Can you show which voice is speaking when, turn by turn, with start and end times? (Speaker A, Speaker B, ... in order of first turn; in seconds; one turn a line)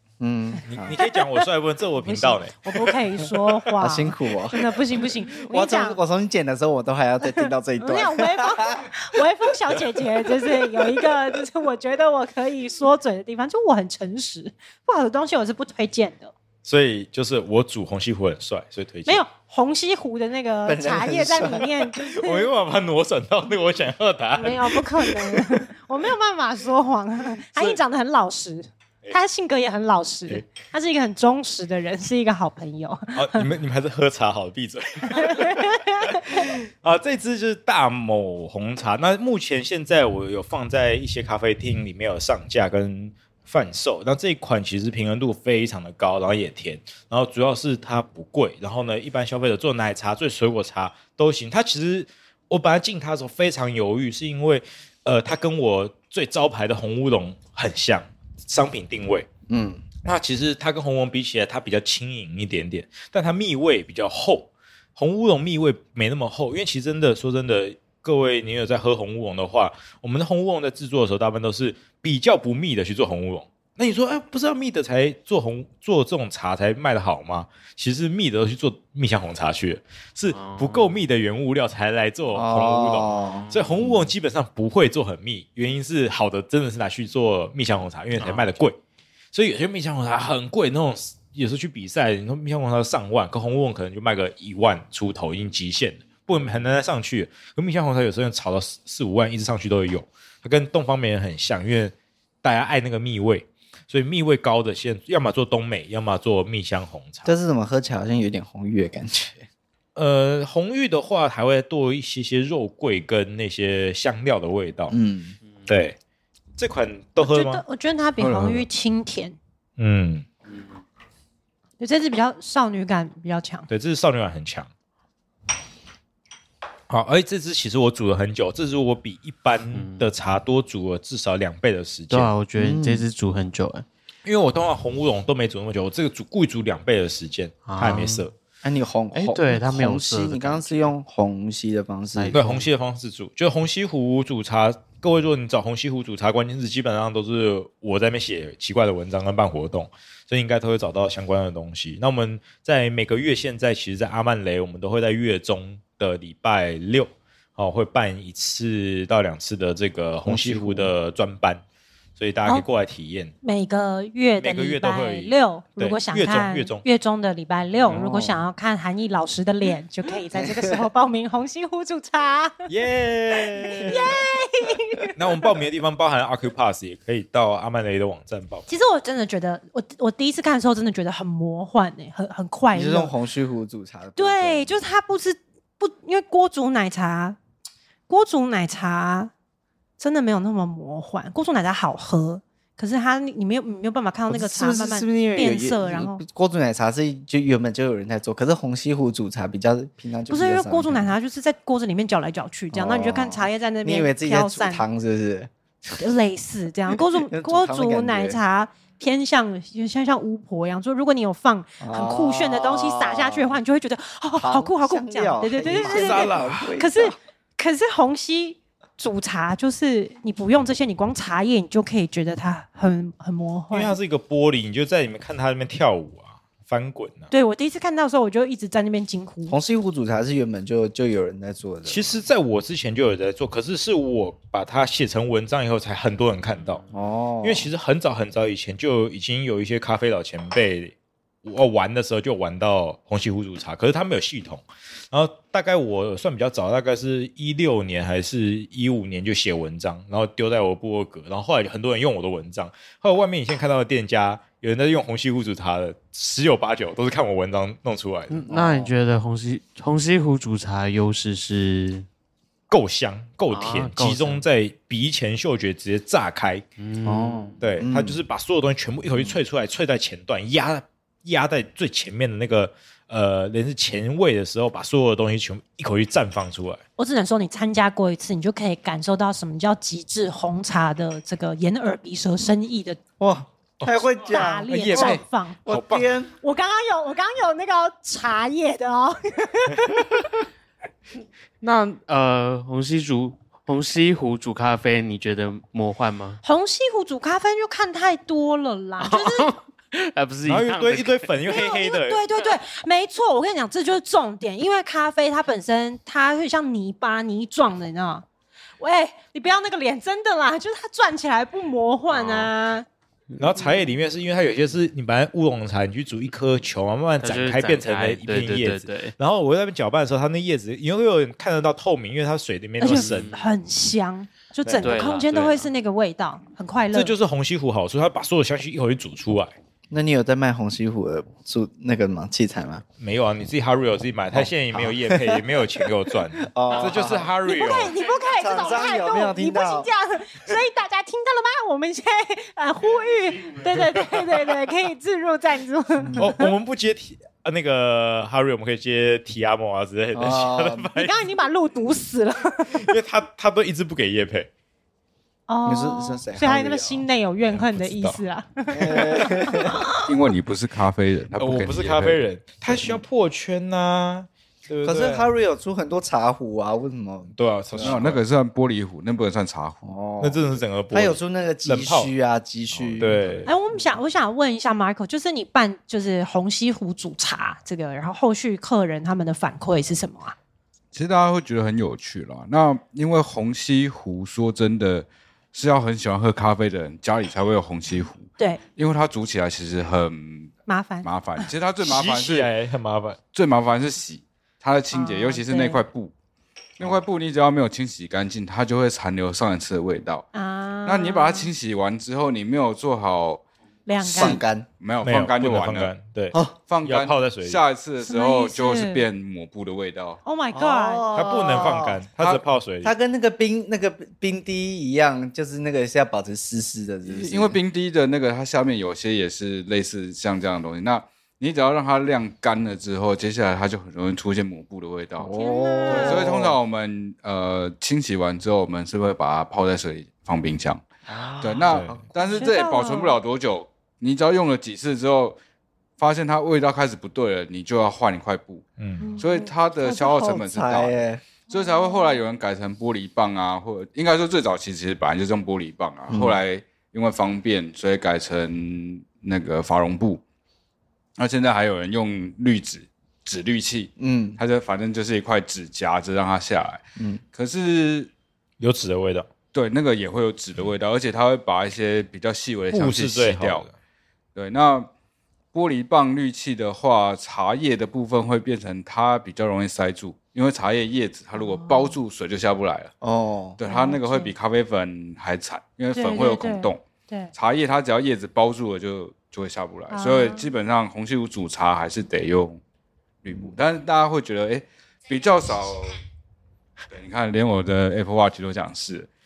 Speaker A: 0.2-1.0
Speaker B: 0.7-2.5
Speaker C: 1.0-1.4
Speaker C: 2.0-6.0
Speaker A: 3.2-9.8
Speaker C: 7.2-16.3
Speaker A: 10.3-11.2
Speaker B: 16.6-19.2
Speaker C: 19.1-22.5
Speaker A: 20.7-21.9
Speaker B: 22.2-25.6
Speaker C: 24.4-33.5
Speaker B: 33.1-59.3
Speaker C: 35.1-36.5
Speaker A: 59.5-59.8
Speaker B: 60.0-88.8
Speaker D: 80.3-81.0
Speaker A: 82.3-83.5
Speaker D: 83.2-83.8
Speaker D: 88.2-88.5
Speaker B: 89.3-107.3
Speaker A: 107.2-109.5
Speaker B: 110.0-115.0
Speaker A: 114.9-115.4
Speaker B: 115.7-116.0
Speaker B: 116.6-117.6
Speaker C: 117.2-119.4
Speaker E: 118.2-118.6
Speaker B: 119.8-120.3
Speaker C: 121.8-123.7
Speaker B: 123.7-124.7
Speaker B: 126.9-132.3
Speaker D: 129.7-130.1
Speaker D: 132.1-133.9
Speaker A: 132.6-133.1
Speaker B: 134.2-138.3
Speaker D: 137.7-138.3
Speaker A: 138.6-142.5
Speaker D: 139.1-140.9
Speaker D: 142.2-142.7
Speaker B: 142.3-161.6
Speaker A: 160.3-160.9
Speaker B: 162.2-163.3
Speaker C: 163.4-172.7
Speaker B: 164.4-166.8
Speaker A: 167.9-168.4
Speaker A: 170.3-170.8
Speaker B: 172.7-174.2
Speaker C: 173.8-175.4
Speaker B: 175.2-178.7
Speaker C: 178.7-183.1
Speaker A: 182.7-184.7
Speaker C: 184.2-187.4
Speaker C: 188.1-189.3
Speaker C: 190.0-196.2
Speaker A: 194.3-201.1
Speaker C: 200.3-204.8
Speaker A: 202.7-205.5
Speaker C: 206.0-224.0
Speaker A: 206.9-208.4
Speaker A: 211.8-213.6
Speaker A: 214.4-217.2
Speaker B: 215.7-216.8
Speaker B: 223.7-227.3
Speaker C: 227.3-229.6
Speaker A: 229.5-232.1
Speaker B: 231.8-236.8
Speaker A: 236.9-237.7
Speaker B: 237.4-240.9
Speaker B: 241.4-258.4
Speaker D: 258.3-262.1
Speaker A: 258.5-258.9
Speaker B: 262.7-266.6
Speaker D: 263.5-264.4
Speaker D: 266.8-267.8
Speaker A: 267.1-268.2
Speaker B: 267.6-276.8
Speaker C: 277.0-283.0
Speaker A: 283.2-286.3
Speaker C: 284.1-285.6
Speaker B: 284.7-286.1
Speaker C: 286.4-290.1
Speaker D: 291.6-296.4
Speaker C: 296.4-299.5
Speaker D: 299.0-301.4
Speaker B: 300.5-302.2
Speaker C: 301.5-308.3
Speaker C: 308.8-312.9
Speaker D: 312.2-312.5
Speaker D: 313.4-313.8
Speaker B: 313.4-323.3
Speaker D: 317.2-319.1
Speaker C: 322.8-327.1
Speaker D: 322.9-323.5
Speaker D: 324.7-325.7
Speaker B: 326.9-329.6
Speaker A: 329.9-332.8
Speaker B: 333.0-338.0
Speaker A: 334.3-337.3
Speaker C: 337.4-346.5
Speaker A: 338.1-339.9
Speaker A: 346.0-346.3
Speaker B: 346.2-351.3
Speaker A: 350.1-350.9
Speaker C: 351.0-352.9
Speaker B: 352.7-354.5
Speaker C: 355.5-360.0
Speaker A: 355.6-357.1
Speaker B: 357.5-358.2
Speaker A: 358.7-359.9
Speaker E: 360.1-362.2
Speaker B: 361.4-365.3
Speaker A: 362.7-363.0
Speaker A: 364.8-368.0
Speaker B: 367.4-368.2
Speaker E: 367.8-369.9
Speaker A: 369.8-373.5
Speaker B: 370.2-372.1
Speaker B: 372.7-373.5
Speaker C: 373.5-380.4
Speaker E: 380.9-392.5
Speaker C: 390.7-391.5
Speaker B: 391.8-393.2
Speaker E: 393.3-396.1
Speaker C: 394.9-395.8
Speaker E: 396.8-400.3
Speaker C: 400.3-401.5
Speaker E: 400.9-403.4
Speaker C: 403.9-404.4
Speaker A: 404.0-404.7
Speaker E: 404.1-405.9
Speaker B: 405.0-407.6
Speaker E: 406.7-410.2
Speaker C: 408.0-409.1
Speaker C: 410.2-411.4
Speaker A: 410.5-417.6
Speaker B: 411.1-412.9
Speaker E: 417.1-430.9
Speaker A: 425.2-426.6
Speaker C: 425.3-426.3
Speaker A: 431.1-432.5
Speaker E: 431.4-435.4
Speaker B: 431.7-431.9
Speaker C: 432.2-433.2
Speaker E: 436.0-438.7
Speaker B: 438.8-439.1
Speaker C: 439.0-439.5
Speaker E: 439.2-440.9
Speaker A: 439.8-441.2
Speaker E: 441.5-450.2
Speaker C: 441.5-442.2
Speaker A: 446.1-446.4
Speaker E: 451.2-458.1
Speaker A: 454.0-454.4
Speaker A: 457.0-457.2
Speaker B: 458.6-459.3
Speaker E: 459.5-463.7
Speaker B: 462.7-463.7
Speaker E: 464.4-464.9
Speaker E: 465.5-472.9
Speaker C: 471.4-471.9
Speaker A: 473.0-473.6
Speaker E: 473.6-476.8
Speaker C: 473.6-474.3
Speaker C: 475.9-477.3
Speaker E: 477.3-482.6
Speaker C: 479.9-480.5
Speaker E: 483.2-486.0
Speaker E: 486.9-489.1